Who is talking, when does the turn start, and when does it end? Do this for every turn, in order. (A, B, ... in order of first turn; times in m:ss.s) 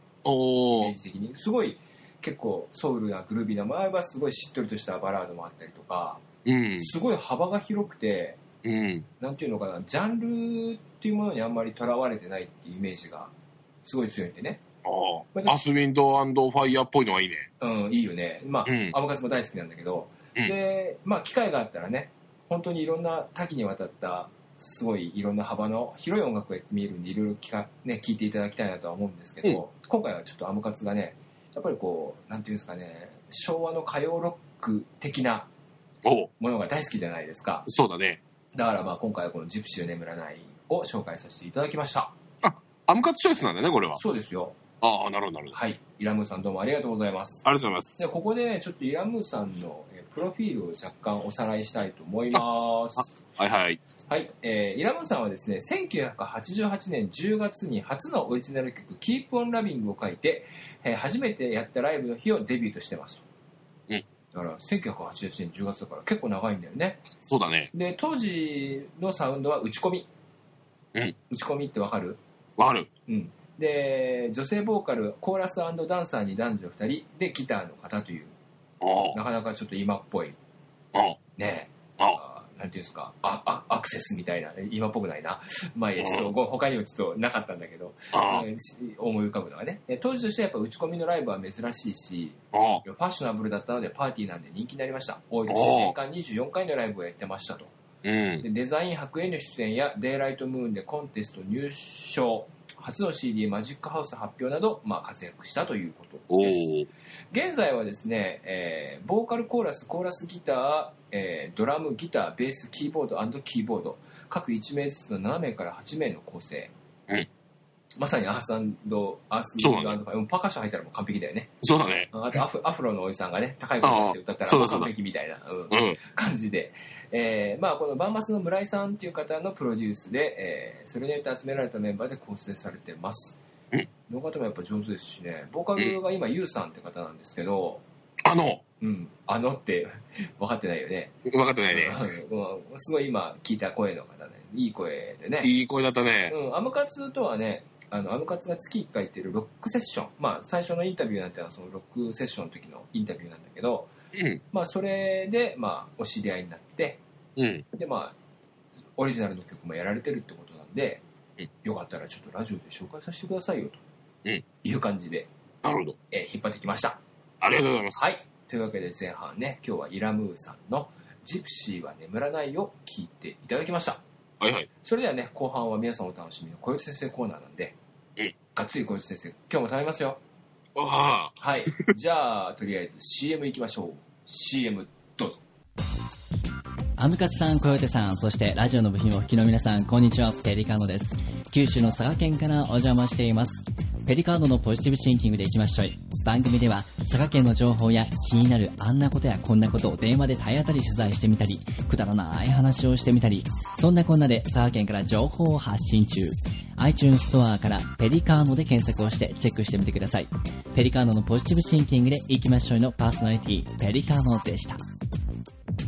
0:00.2-0:00.9 A
0:00.7-0:06.2 B
0:06.4-0:06.9 A
0:06.8-0:08.4 B
0:08.6-0:09.1 A
0:09.2-0:13.3 B
0:13.8-0:14.6 B
0:14.8-0:17.5 A
0:17.6-0:35.5 B
0:18.6-0:19.0 A
0:36.0-0:36.3 A
0:36.4-0:37.7 B
0:37.7-0:38.2 A
0:38.5-0:42.2 B
0:42.4-0:44.0 A
0:44.0-0:44.6 B
0:44.8-0:45.5 A
0:45.5-0:47.5 B
0:47.4-0:48.1 A
0:48.0-0:53.1 B
0:53.0-0:53.8 A
0:54.1-1:03.2 B
1:04.3-1:07.0 B
1:07.2-1:07.7 A
1:07.7-1:10.1 B
1:11.3-1:12.2 B
1:12.6-1:12.9 A
1:13.1-1:18.4 B
1:18.8-1:19.2 A
1:19.1-1:20.4 B
1:20.9-1:21.2 A
1:21.4-1:37.7 B
1:26.0-1:26.3 A
1:28.1-1:28.5 A
1:32.5-1:32.8 A
1:35.5-1:36.0 A
1:38.0-1:38.5 A
1:38.4-1:46.7 B
1:46.3-1:46.9 A
1:47.3-1:56.7 B
1:58.0-2:01.5 B
1:59.6-2:00.0 A
2:01.6-2:02.1 A
2:02.1-2:13.4 B
2:03.8-2:04.9 A
2:05.7-2:06.0 A
2:14.1-2:17.8 B
2:18.2-2:18.6 A
2:18.8-2:21.2 B
2:21.3-2:22.0 A
2:21.7-2:25.5 B
2:25.4-2:26.4 A
2:26.3-2:33.9 B
2:34.1-2:34.4 A
2:34.5-2:37.0 B
2:37.4-2:37.6 A
2:37.7-2:38.2 B
2:39.0-2:41.0 B
2:41.6-2:43.8 B
2:44.6-2:45.3 B
2:45.6-2:46.0 A
2:46.1-2:47.0 B
2:47.4-2:48.0 A
2:48.0-2:54.0 B
2:54.4-2:54.7 A
2:54.8-2:57.8 B
2:58.5-3:00.2 B
3:00.8-3:01.9 A
3:01.4-3:05.4 B
3:07.0-3:34.8 C